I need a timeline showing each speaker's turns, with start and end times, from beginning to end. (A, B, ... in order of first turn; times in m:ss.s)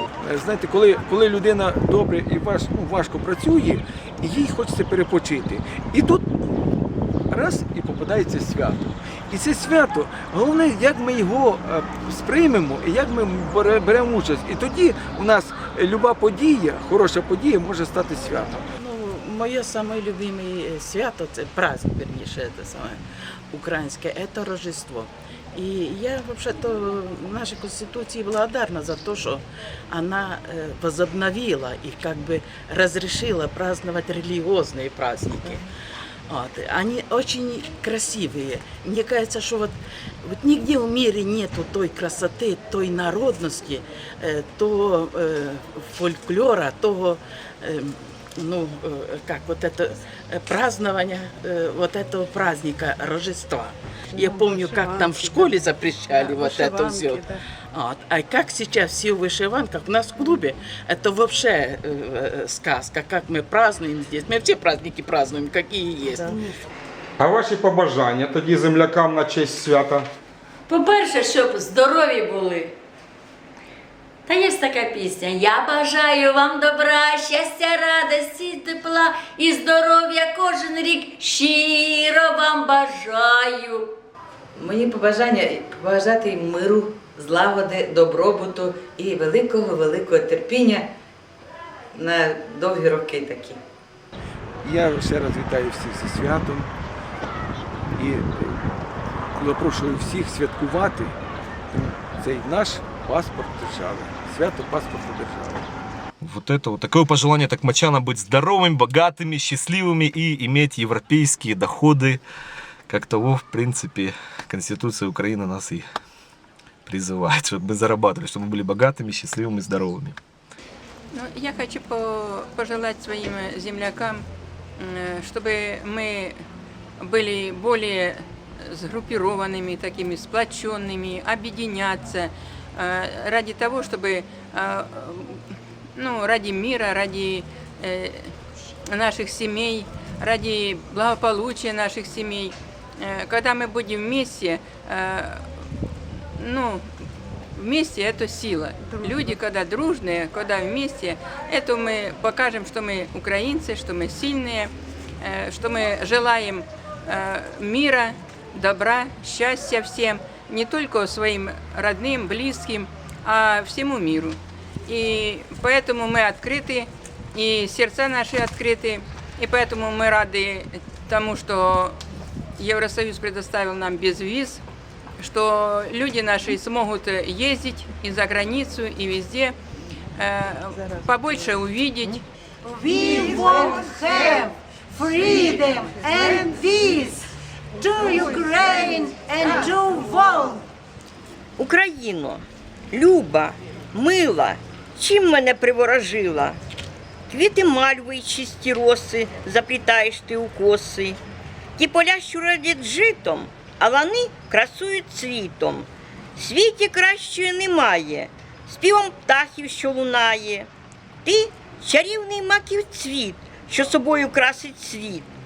0:00.2-0:06.3 A
0:07.3-0:18.6 A
0:18.8-0:23.0 B
0:23.5-0:35.6 B
0:36.3-1:06.5 B
1:07.2-1:10.1 C
1:10.7-1:12.7 D
1:14.3-1:23.9 D
1:24.5-1:30.9 E
1:31.9-1:33.6 E
1:34.6-1:36.7 A
1:37.9-1:38.7 A
1:39.3-1:41.2 A
1:41.7-1:45.7 A
1:46.2-1:52.2 F
1:52.9-1:55.8 F
1:56.8-2:00.2 F
2:01.1-2:04.2 G
2:04.8-2:06.4 G
2:07.0-2:15.4 G
2:16.0-2:18.3 G
2:18.9-2:25.4 G
2:26.4-2:26.8 G
2:27.6-2:52.0 G
2:52.6-2:54.6 G
2:55.2-2:59.5 G
3:00.2-3:02.2 G
3:02.6-3:07.2 H
3:07.7-3:10.6 H
3:11.6-3:16.6 I
3:17.3-3:21.2 I
3:21.8-3:30.7 I
3:31.2-3:35.3 I